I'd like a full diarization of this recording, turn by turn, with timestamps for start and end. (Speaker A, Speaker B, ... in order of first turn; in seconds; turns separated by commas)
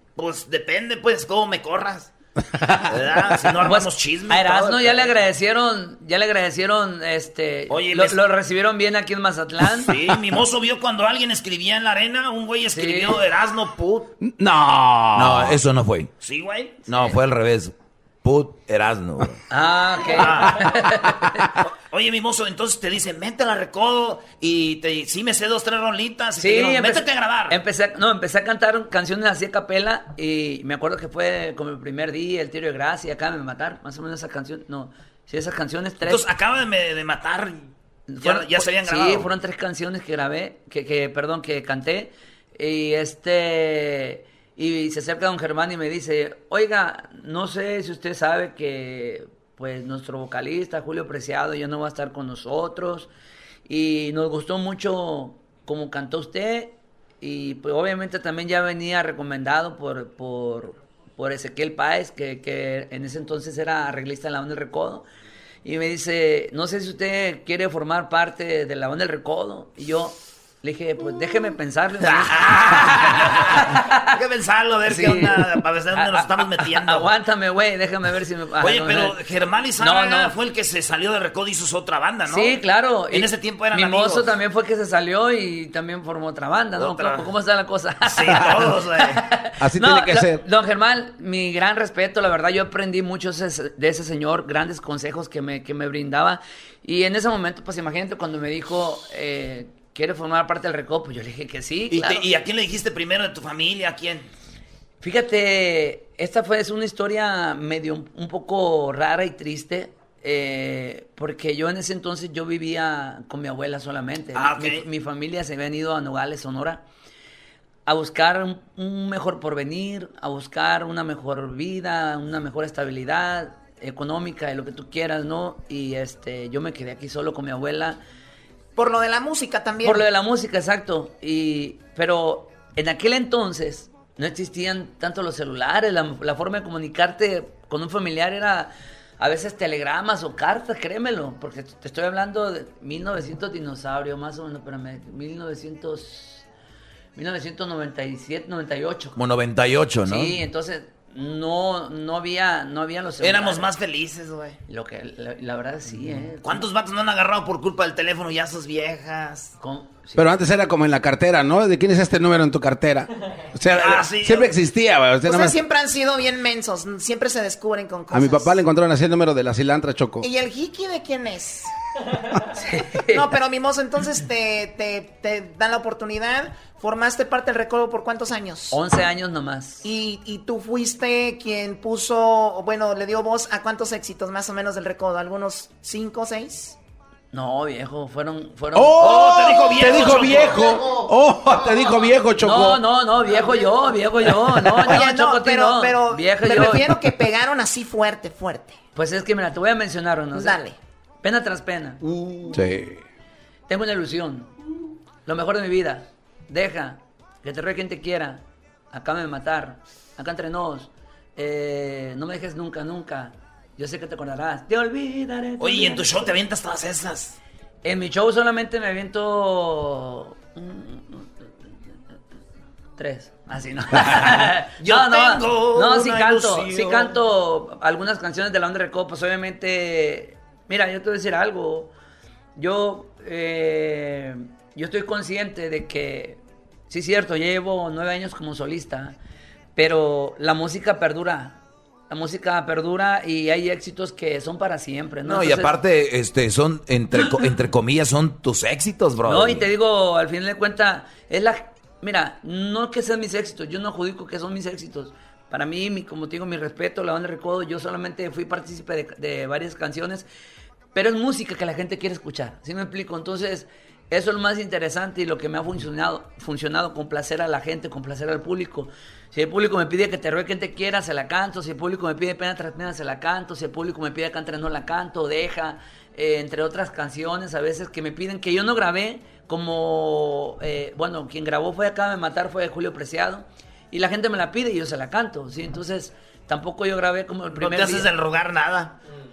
Speaker A: 0.1-2.1, Speaker A: 2.9-5.1, Speaker B: 3.6-9.9, Speaker A: 7.7-8.2, Speaker A: 9.7-14.1, Speaker B: 12.7-13.2, Speaker C: 14.2-15.6, Speaker D: 15.1-16.1, Speaker A: 16.2-16.9, Speaker D: 16.9-19.4, Speaker B: 19.5-21.5, Speaker A: 20.1-20.6, Speaker A: 21.9-27.6, Speaker B: 26.4-36.2, Speaker A: 36.0-37.6, Speaker B: 38.1-53.1, Speaker A: 38.2-39.3, Speaker B: 53.6-65.0, Speaker B: 65.6-74.1, Speaker A: 72.0-77.1, Speaker B: 74.8-79.2, Speaker A: 78.6-84.3, Speaker B: 79.8-80.3, Speaker B: 82.3-102.2, Speaker A: 86.8-87.3, Speaker A: 88.0-89.2, Speaker C: 89.6-90.4, Speaker A: 101.9-104.3, Speaker B: 105.0-116.8, Speaker A: 114.3-114.8, Speaker B: 117.8-128.0, Speaker E: 128.8-130.0, Speaker B: 129.8-146.4, Speaker B: 147.1-149.2, Speaker D: 149.2-150.3, Speaker B: 150.0-153.6, Speaker A: 153.2-154.6, Speaker B: 154.7-156.6, Speaker A: 156.4-159.5, Speaker B: 159.6-160.3, Speaker C: 160.2-165.6, Speaker A: 163.7-164.5, Speaker E: 165.2-168.6, Speaker C: 168.1-170.2, Speaker E: 170.2-171.7, Speaker B: 172.5-173.2, Speaker E: 173.1-178.8, Speaker B: 178.7-179.8, Speaker E: 179.8-186.8, Speaker B: 187.3-189.3, Speaker C: 188.7-192.8, Speaker A: 189.0-190.8, Speaker B: 192.4-196.9, Speaker C: 194.7-194.9, Speaker E: 194.9-198.8, Speaker B: 198.9-200.6, Speaker E: 200.3-200.7, Speaker B: 201.2-202.0, Speaker C: 202.5-203.0, Speaker B: 203.7-204.5, Speaker B: 205.2-216.1, Speaker A: 215.6-217.3, Speaker B: 217.8-221.4, Speaker B: 223.0-231.9, Speaker A: 224.8-227.2, Speaker B: 232.6-239.2, Speaker B: 239.8-245.8, Speaker D: 245.2-249.7, Speaker B: 249.2-260.2, Speaker B: 260.9-288.1, Speaker A: 287.5-288.9